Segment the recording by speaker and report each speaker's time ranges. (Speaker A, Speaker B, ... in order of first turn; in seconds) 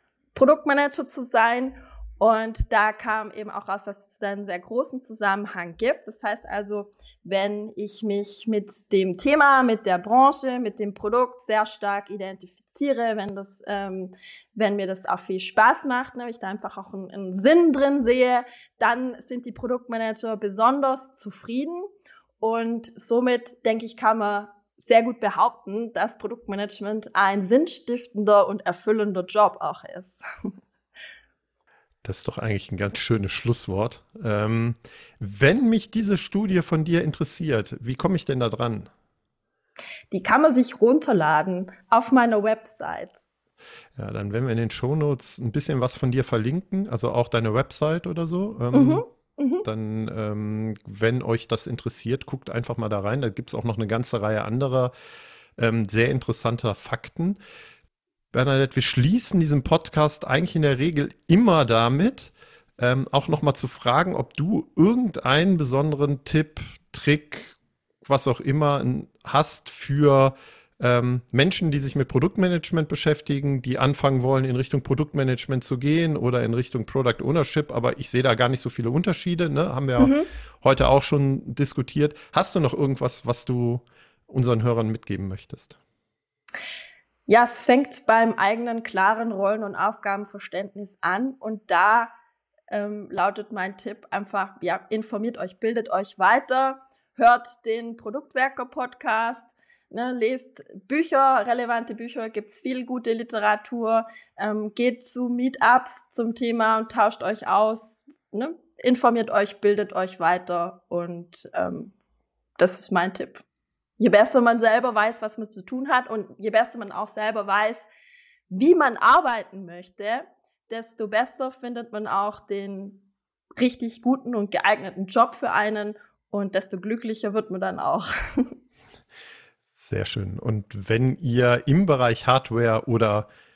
Speaker A: 0.3-21.9, 22.4-30.5, 40.1-43.2, 48.7-49.6, 80.0-80.3, 87.3-92.1, 92.7-111.9, 112.6-113.4, 114.0-117.9, 118.5-123.0, 123.6-128.5
Speaker B: 32.0-38.9, 44.0-49.0, 49.6-54.9, 55.6-57.4, 58.3-85.8, 129.7-133.3